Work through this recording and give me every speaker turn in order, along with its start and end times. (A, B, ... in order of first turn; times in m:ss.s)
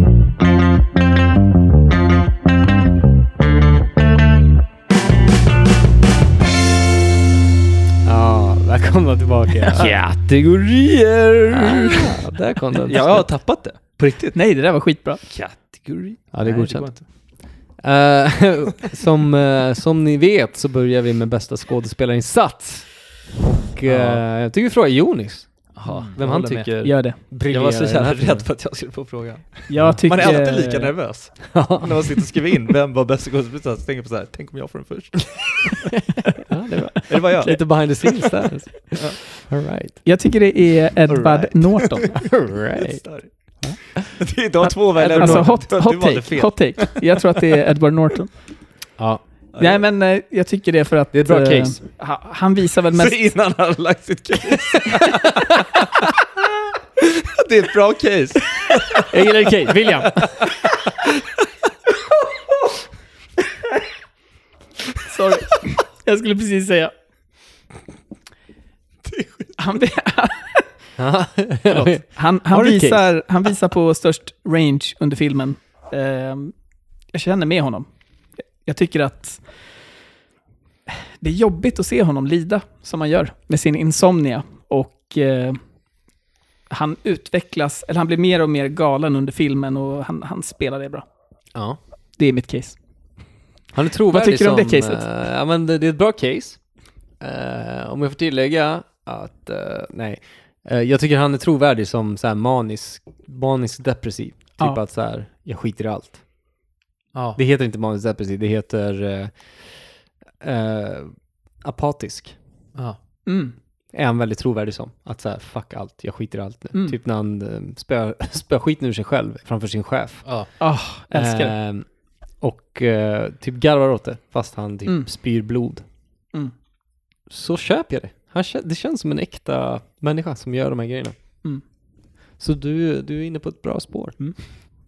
0:08.0-0:10.0 A
0:09.8-0:17.1 B
0:11.5-0:13.3 A
0:14.3-0:15.2 C
0:16.3-0:28.5 A
0:23.8-0:24.2 B
0:25.7-0:35.8 B
0:25.9-0:26.1 C
0:26.8-0:27.2 C
0:29.7-0:30.9 C
0:29.8-0:30.4 A
0:31.5-0:31.9 A
0:36.5-0:40.0 A
0:37.1-0:37.6 B
0:37.4-0:37.8 C
0:40.0-0:42.2 C
0:41.1-0:43.6 B
0:42.1-0:43.8 A
0:44.2-0:47.0 B
0:45.0-0:45.6 A
0:45.1-0:48.4 C
0:49.0-0:49.2 A
0:49.5-0:49.8 B
0:49.6-0:53.2 C
0:51.1-0:51.8 A
0:52.9-0:55.3 B
0:57.4-0:59.0 B
0:59.1-1:00.2 A
1:00.1-1:00.7 B
1:05.1-1:06.9 C
1:09.0-1:09.6 B
1:09.6-1:10.6 C
1:11.0-1:13.1 A
1:11.7-1:16.5 C
1:17.1-1:17.9 C
1:18.6-1:19.5 C
1:21.2-1:25.6 C
1:26.7-1:31.0 C
1:31.5-1:31.8 A
1:32.2-1:32.8 C
1:33.7-1:46.2 A
1:34.1-1:35.1 C
1:47.1-1:47.4 B
1:47.4-1:52.4 A
1:53.2-1:53.5 C
1:53.9-2:05.8 A
2:00.2-2:00.5 B
2:00.6-2:01.5 C
2:07.3-2:11.2 A
2:12.4-2:14.6 A